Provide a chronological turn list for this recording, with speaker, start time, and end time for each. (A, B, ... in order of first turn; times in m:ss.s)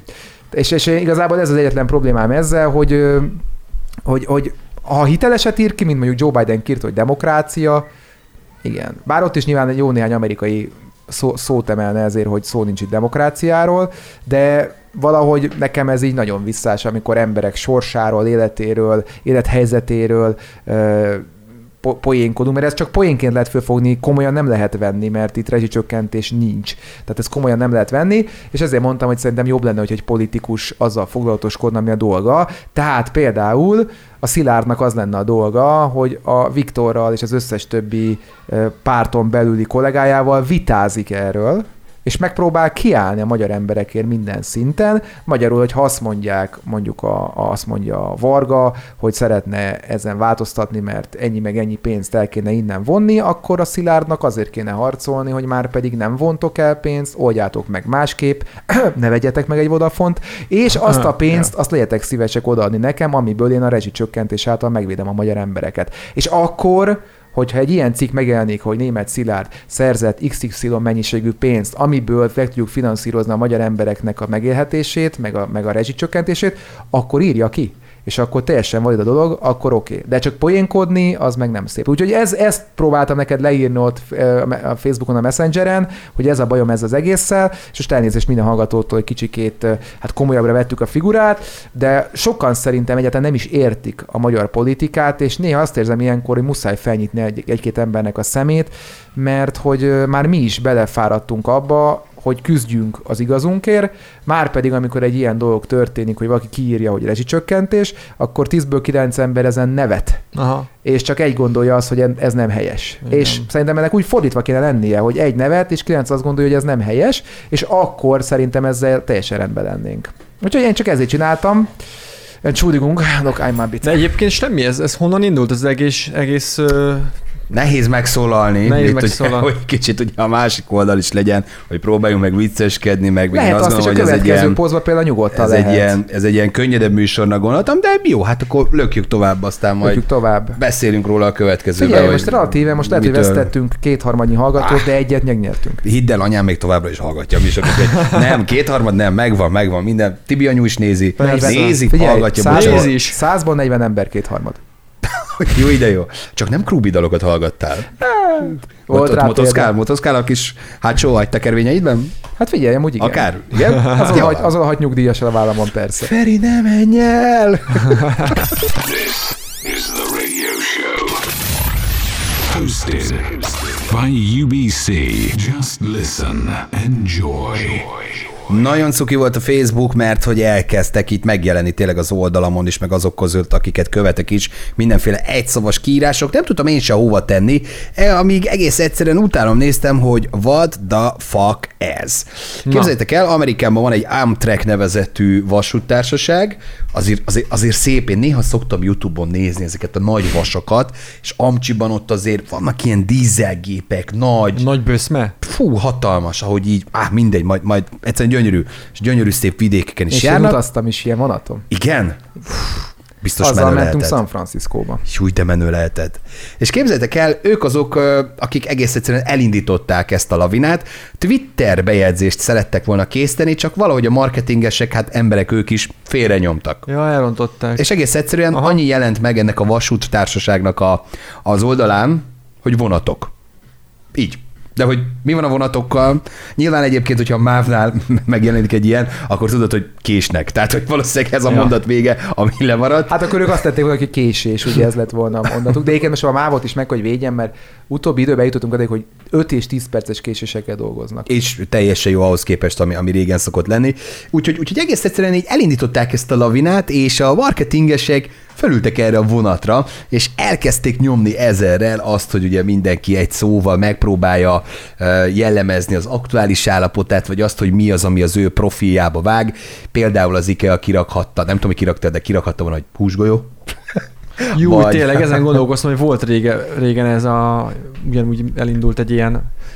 0:00.5-0:03.4 A
0:04.0-0:07.9 A
0:08.6-0:21.3 A
0:21.8-1:50.2 A
1:50.4-1:50.7 B
1:50.8-2:01.7 A
1:53.1-1:53.4 B
2:02.4-2:04.0 A
2:03.8-2:07.1 B
2:07.5-2:14.6 C
2:08.6-2:09.5 B
2:13.3-2:16.0 A
2:15.3-2:20.0 C
2:19.8-2:20.6 A
2:20.6-2:23.5 C
2:21.8-2:25.8 A
2:25.8-2:32.9 C
2:31.2-2:33.2 B
2:31.2-2:34.6 A
2:35.0-2:42.2 C
2:38.0-2:39.7 A
2:42.4-2:46.1 A
2:43.0-2:44.5 C
2:46.0-2:48.4 C
2:48.7-2:51.4 D
2:52.3-2:58.4 D
2:58.5-3:24.6 C
3:12.7-3:12.9 B
3:24.5-3:25.4 B
3:25.4-3:30.6 C
3:30.1-3:31.7 A
3:31.7-3:32.6 C
3:33.2-3:34.2 C
3:33.4-3:35.0 A
3:35.1-3:46.9 C
3:46.9-3:47.9 B
3:47.8-3:53.3 C
3:54.1-4:03.3 C
4:03.1-4:11.3 A
4:11.3-4:35.4 C
4:34.5-4:39.5 B